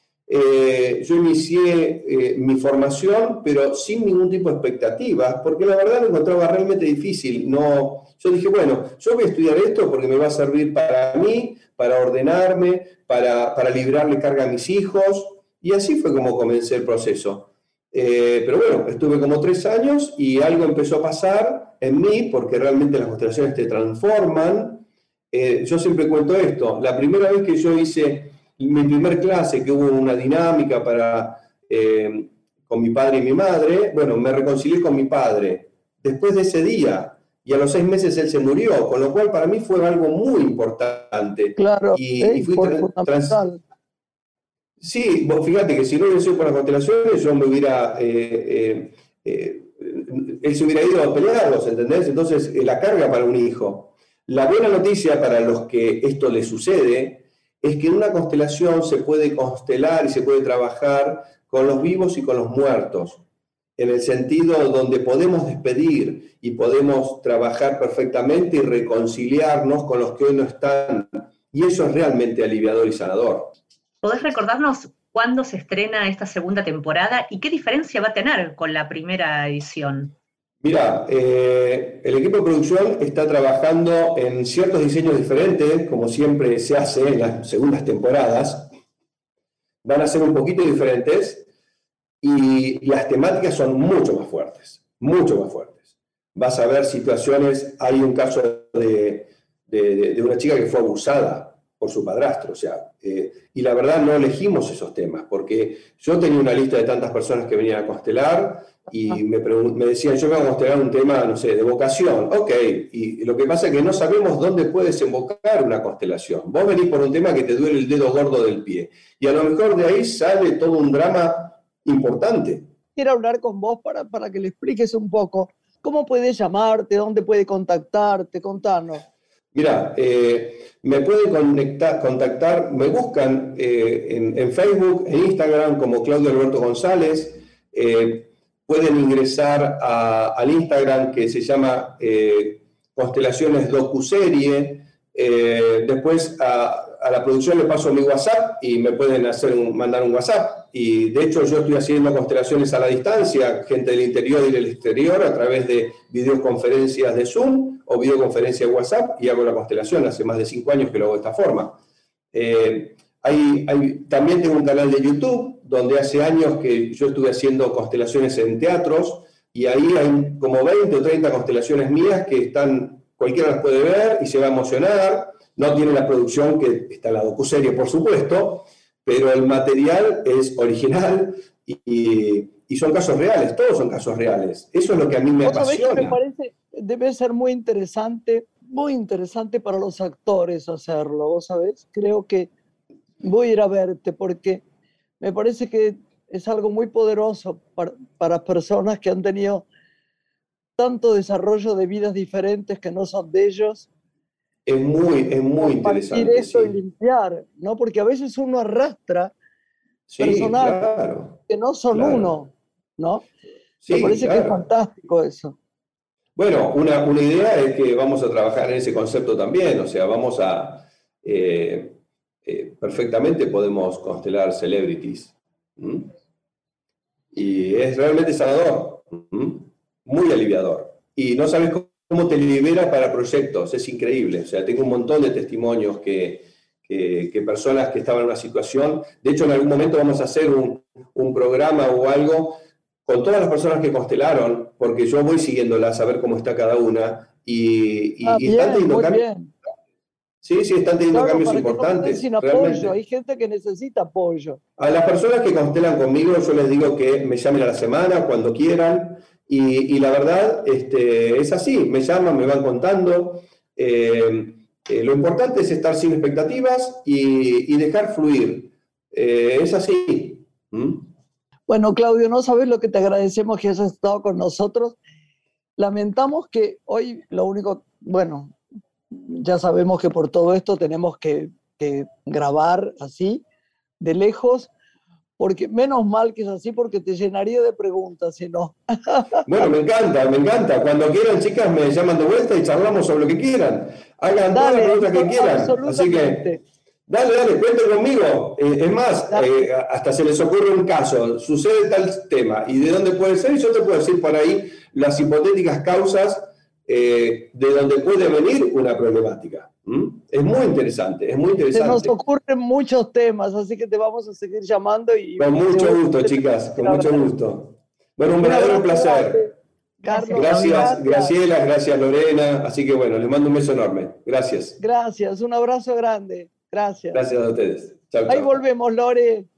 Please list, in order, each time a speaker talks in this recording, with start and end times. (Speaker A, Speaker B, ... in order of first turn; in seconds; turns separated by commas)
Speaker A: 0.3-43.4, Speaker B: 41.6-43.6, Speaker A: 44.8-63.2, Speaker A: 63.8-73.5, Speaker C: 74.0-80.1, Speaker A: 80.6-88.7, Speaker A: 89.8-91.5, Speaker A: 92.2-95.8, Speaker A: 96.3-122.7, Speaker B: 123.0-129.0, Speaker A: 129.5-161.8, Speaker A: 162.3-186.2, Speaker B: 185.4-192.5, Speaker B: 193.2-194.6, Speaker B: 195.2-199.7, Speaker B: 200.8-203.9, Speaker A: 204.7-206.8, Speaker B: 205.6-209.3, Speaker A: 210.1-212.3, Speaker B: 210.2-210.8, Speaker B: 211.5-213.3, Speaker A: 213.8-214.6, Speaker B: 213.9-215.6, Speaker A: 216.4-226.1, Speaker A: 227.3-249.2, Speaker B: 248.2-249.5, Speaker A: 250.4-252.9, Speaker B: 251.1-254.6, Speaker A: 254.8-271.1, Speaker B: 271.7-275.0, Speaker B: 275.8-278.6, Speaker B: 279.1-283.4, Speaker B: 284.0-284.7, Speaker B: 285.4-289.5, Speaker A: 289.5-296.5, Speaker B: 294.5-296.6, Speaker A: 297.1-312.1, Speaker B: 311.7-317.3, Speaker A: 315.4-319.5, Speaker B: 318.4-321.4, Speaker C: 320.1-321.0, Speaker A: 320.3-324.8, Speaker B: 324.8-327.2, Speaker A: 327.1-328.6, Speaker B: 328.3-329.5